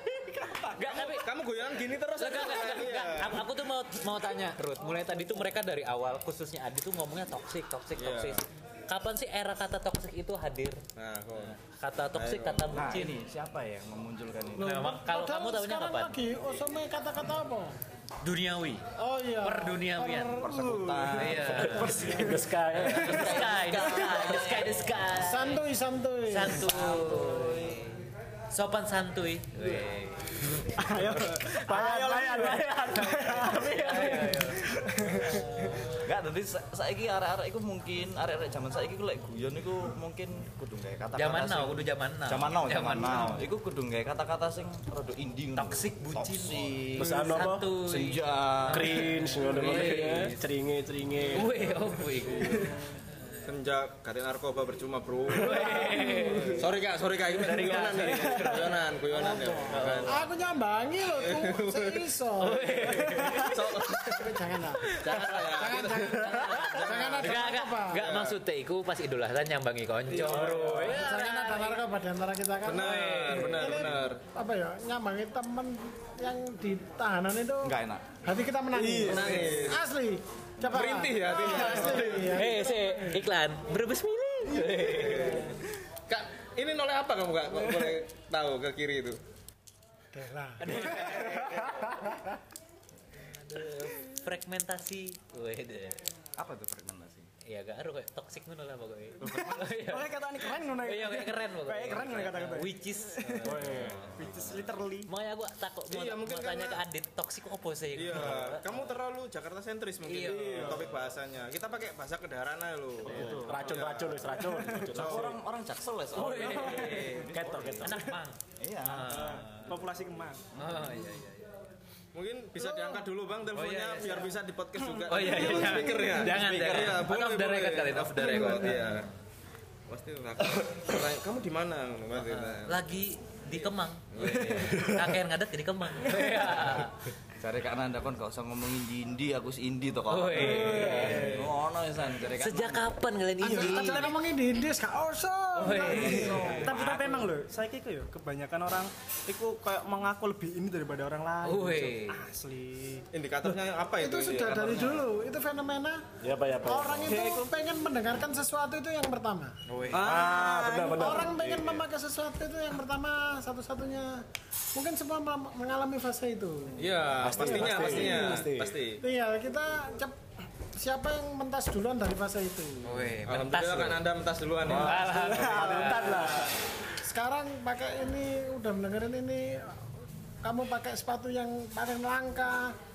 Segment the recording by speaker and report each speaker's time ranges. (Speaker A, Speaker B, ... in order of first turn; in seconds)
Speaker A: 0.6-1.3, 2.2-10.8, 11.4-13.2, 14.6-16.2, 18.2-18.8, 19.4-20.4, 21.1-25.6, 26.3-31.5, 32.4-36.0, 41.2-43.5, 45.6-50.4, 51.3-53.4, 55.3-56.7, 57.3-58.8, 59.7-60.2, 62.4-63.6, 65.1-71.8, 72.8-73.9, 81.8-85.5, 90.6-92.0, 93.2-96.0, 97.5-104.5, 105.1-108.9, 110.0-110.9, 116.1-117.3, 117.8-119.7, 120.5-121.5, 123.5-124.3, 125.1-129.1, 132.2-137.1, 140.1-141.5, 142.3-144.2, 145.6-146.9, 151.4-152.2, 159.7-160.1, 172.8-174.1, 174.7-176.5
Speaker B: 0.8-3.5, 8.0-8.4, 11.0-11.6, 12.1-12.9, 53.5-60.2, 61.1-62.1, 63.3-68.4, 70.1-70.8, 72.6-74.2, 79.0-79.9, 80.6-82.4, 84.5-89.2, 105.9-106.8, 108.0-115.3, 122.1-129.1, 129.9-132.8, 134.1-134.8, 153.1-155.1, 159.9-160.2, 166.8-169.0, 173.2-176.1
Speaker C: 12.7-14.9, 20.4-21.9, 22.8-24.8, 26.7-27.8, 36.0-50.0, 77.6-78.1, 96.4-97.3, 99.2-99.7, 103.7-104.4, 113.0-113.8, 114.9-118.0, 118.6-119.4, 137.4-142.9, 146.7-147.2
Speaker D: 14.6-17.8, 19.0-20.6, 21.8-22.4, 25.2-26.7, 56.1-56.5, 59.1-68.0, 70.5-83.2, 90.1-92.0, 143.4-146.7, 154.0-156.1, 156.6-159.6, 160.9-168.4, 169.0-170.2, 170.8-173.1, 177.0-179.9, 180.4-182.8
Speaker E: 20.5-22.4, 30.8-36.0, 55.9-56.4, 63.1-63.4, 70.1-70.9, 78.8-79.4, 99.3-103.6, 104.2-105.1, 110.2-110.9, 119.1-120.4, 125.0-126.1, 140.5-141.4, 143.6-144.1, 145.9-153.1, 157.1-157.5, 159.9-161.2
Speaker F: 21.6-23.3, 31.7-32.5, 47.0-47.7, 48.7-51.6, 103.5-104.1, 113.2-115.3, 116.3-118.1, 156.2-157.2, 160.0-161.7, 167.2-168.8, 174.7-176.6